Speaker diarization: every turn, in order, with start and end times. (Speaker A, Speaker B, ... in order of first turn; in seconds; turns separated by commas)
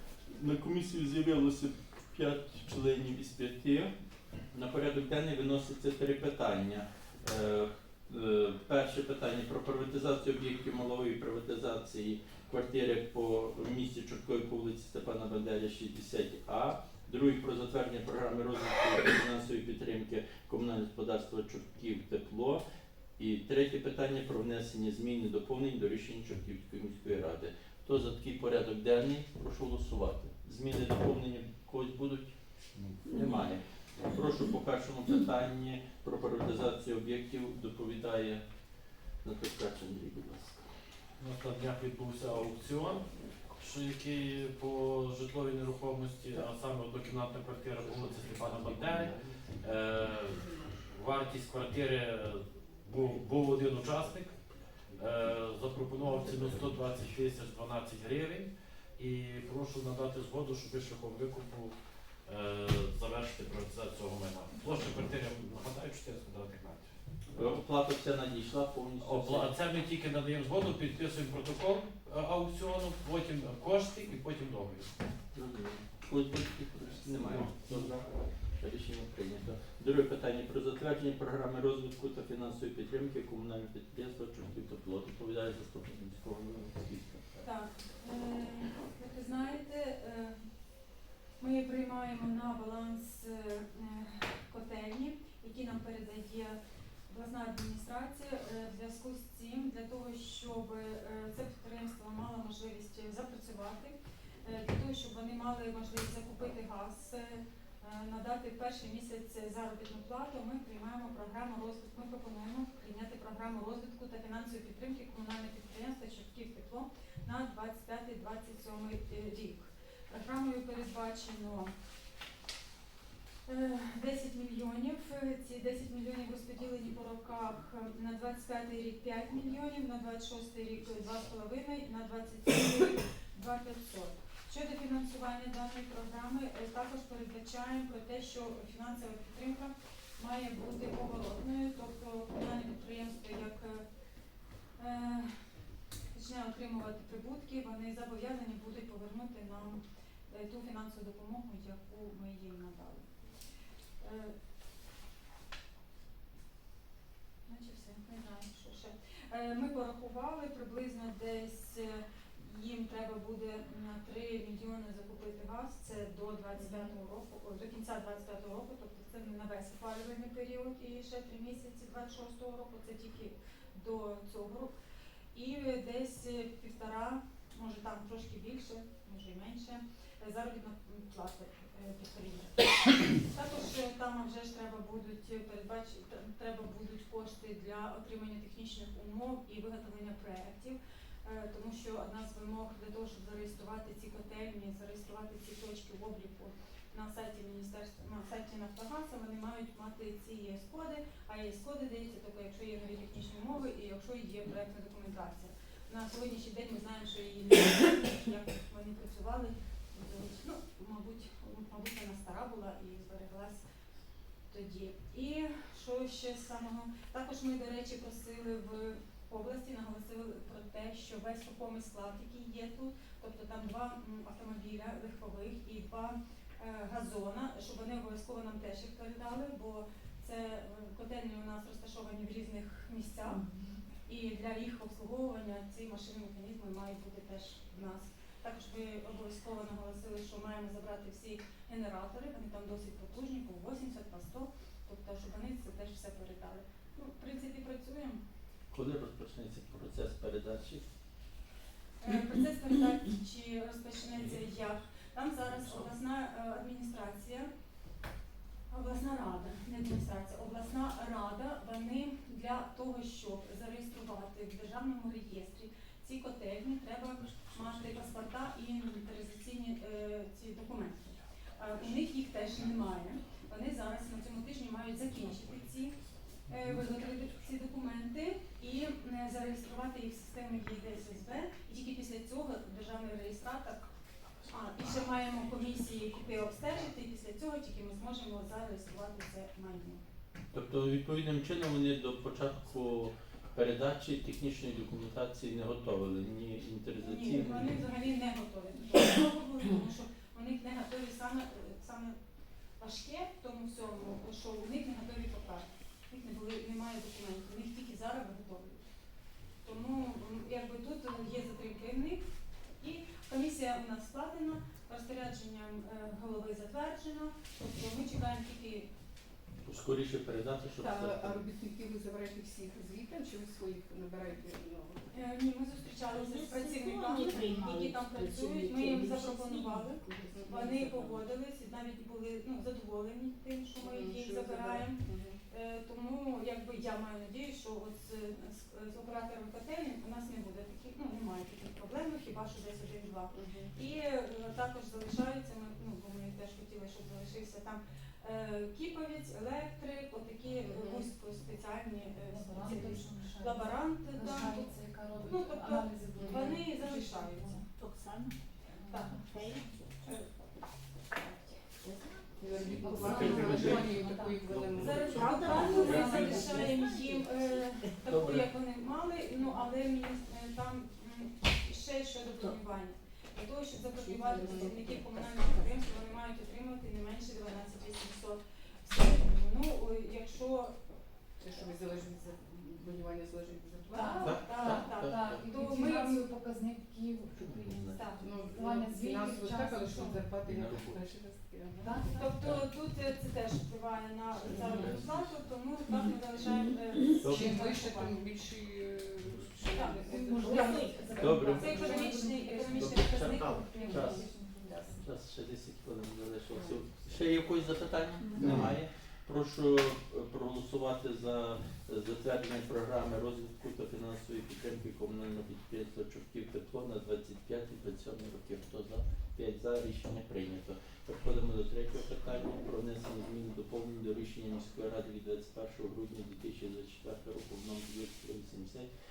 Speaker A: 0.2-3.9, Speaker A: 4.5-22.6, Speaker A: 23.2-32.4, Speaker A: 33.0-38.4, Speaker A: 39.2-40.7, Speaker B: 41.2-66.9, Speaker A: 47.8-49.3, Speaker A: 67.3-69.5, Speaker B: 69.0-74.9, Speaker A: 75.3-87.4, Speaker B: 77.2-77.9, Speaker C: 87.4-90.4, Speaker C: 91.4-121.7, Speaker C: 123.5-143.8, Speaker C: 144.8-145.3, Speaker C: 146.1-153.2, Speaker C: 154.0-154.3, Speaker C: 157.4-174.7, Speaker D: 166.6-166.9, Speaker C: 175.3-213.6, Speaker C: 214.5-233.4, Speaker D: 233.3-233.7, Speaker C: 234.1-248.2, Speaker A: 248.7-250.8, Speaker C: 252.0-257.5, Speaker C: 258.7-283.8, Speaker C: 284.4-290.0, Speaker A: 290.5-297.7, Speaker C: 297.0-302.1, Speaker C: 302.8-308.9, Speaker C: 309.6-312.2, Speaker C: 312.8-318.9, Speaker A: 319.6-321.4, Speaker E: 320.8-325.1, Speaker C: 325.1-357.6, Speaker D: 326.1-331.2, Speaker E: 330.3-330.7, Speaker E: 333.8-335.4, Speaker E: 343.3-343.7, Speaker E: 350.7-351.1, Speaker F: 352.3-357.6, Speaker E: 356.1-356.6, Speaker D: 357.8-360.2, Speaker C: 358.9-359.2, Speaker F: 358.9-359.2, Speaker C: 360.0-360.3, Speaker C: 361.2-361.4, Speaker D: 361.8-363.3, Speaker E: 362.4-365.8, Speaker F: 362.8-364.8, Speaker A: 363.0-363.9, Speaker B: 363.2-363.9, Speaker B: 364.5-365.1, Speaker C: 364.8-380.7, Speaker D: 365.1-367.9, Speaker F: 365.3-366.8, Speaker E: 366.4-366.7, Speaker A: 368.1-368.5, Speaker D: 373.8-375.8, Speaker E: 374.4-374.8, Speaker E: 381.4-384.2, Speaker C: 383.9-386.4, Speaker F: 384.0-390.2, Speaker A: 384.2-385.5, Speaker A: 387.3-388.2, Speaker C: 387.9-388.3, Speaker E: 388.2-392.2, Speaker A: 390.4-391.1, Speaker F: 391.8-392.6, Speaker C: 392.1-398.2, Speaker A: 394.4-395.5, Speaker E: 394.5-395.0, Speaker A: 397.1-397.7, Speaker E: 397.2-401.9, Speaker C: 399.6-404.3, Speaker F: 400.1-405.0, Speaker D: 400.4-401.1, Speaker A: 401.2-401.8, Speaker A: 402.8-428.9, Speaker E: 404.6-404.9, Speaker E: 406.5-406.9